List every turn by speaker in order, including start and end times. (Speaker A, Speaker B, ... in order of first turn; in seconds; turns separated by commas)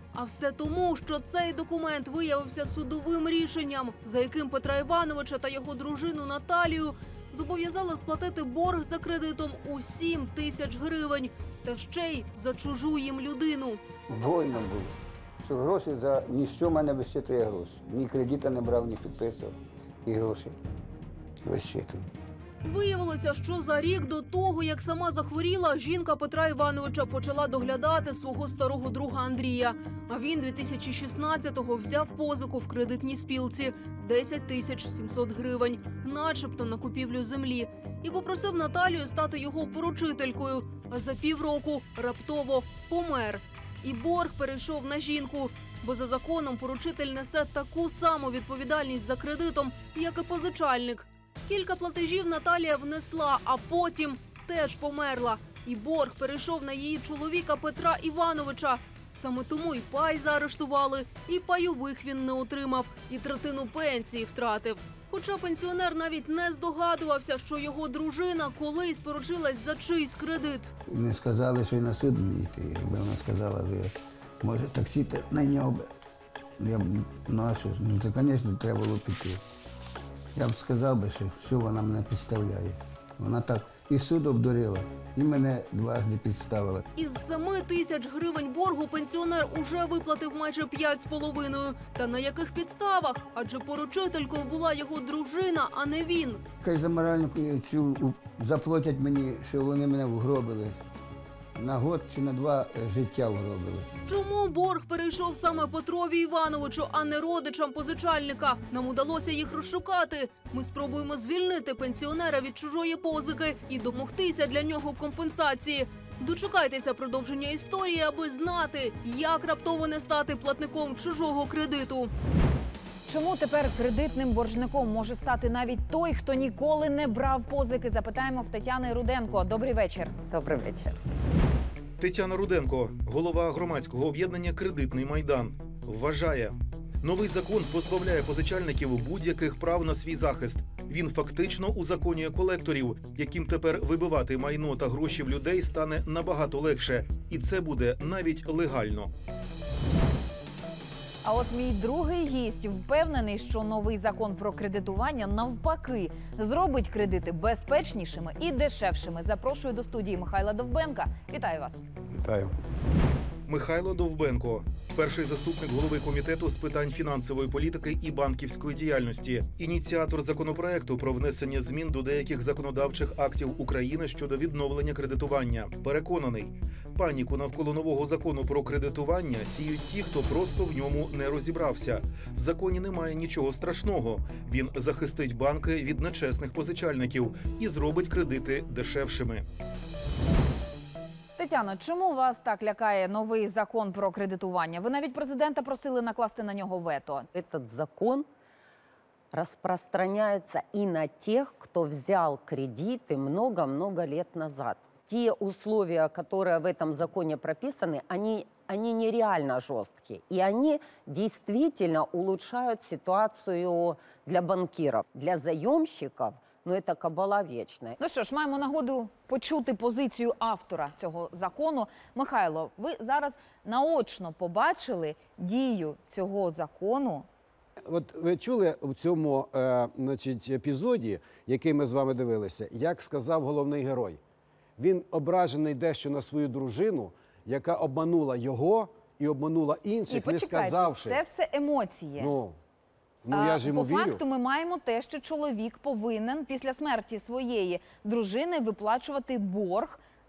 Speaker A: 0.1-13.8, Speaker B: 14.1-20.6, Speaker B: 21.4-22.1, Speaker A: 22.6-70.7, Speaker B: 70.9-75.9, Speaker B: 76.6-79.4, Speaker B: 80.3-86.8, Speaker A: 87.0-96.4, Speaker B: 96.6-100.8, Speaker B: 101.6-103.9, Speaker A: 104.1-122.1, Speaker C: 123.1-130.2, Speaker D: 130.3-131.0, Speaker E: 132.0-149.1, Speaker C: 151.2-161.8, Speaker E: 162.2-162.5, Speaker E: 163.5-189.4, Speaker C: 191.4-197.3, Speaker D: 197.3-198.2, Speaker D: 199.3-218.0, Speaker C: 218.0-227.2, Speaker F: 227.8-234.2, Speaker F: 234.8-241.2, Speaker C: 240.1-242.4, Speaker F: 242.2-242.6, Speaker F: 243.2-244.2, Speaker C: 243.3-250.0